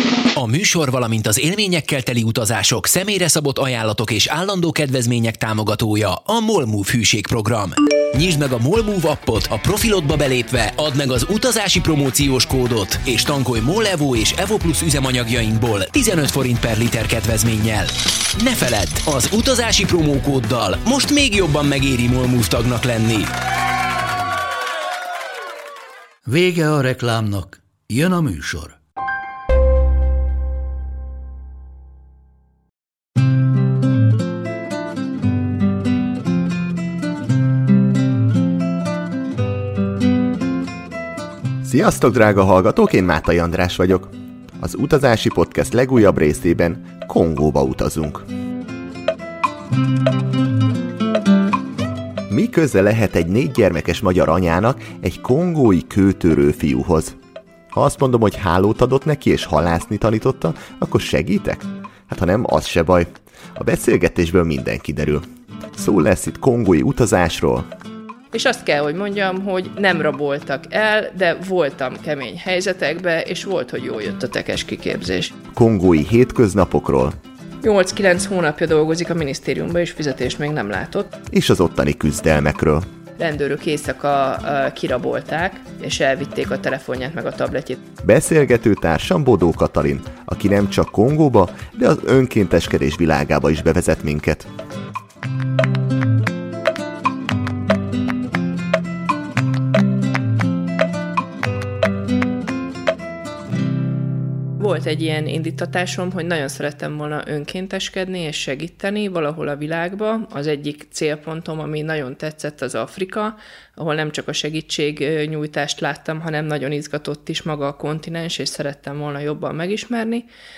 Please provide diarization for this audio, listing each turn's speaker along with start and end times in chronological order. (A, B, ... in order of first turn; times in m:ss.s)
0:00.4-0:23.3 A
0:26.3-0:28.8 B
0:41.6-0:48.3 C
0:52.3-0:57.2 C
0:57.7-1:07.7 C
1:08.3-1:15.4 D
1:15.5-1:17.2 C
1:17.6-1:21.2 D
1:21.3-1:22.9 C
1:23.2-1:27.8 D
1:28.0-1:34.5 C
1:44.6-2:00.3 D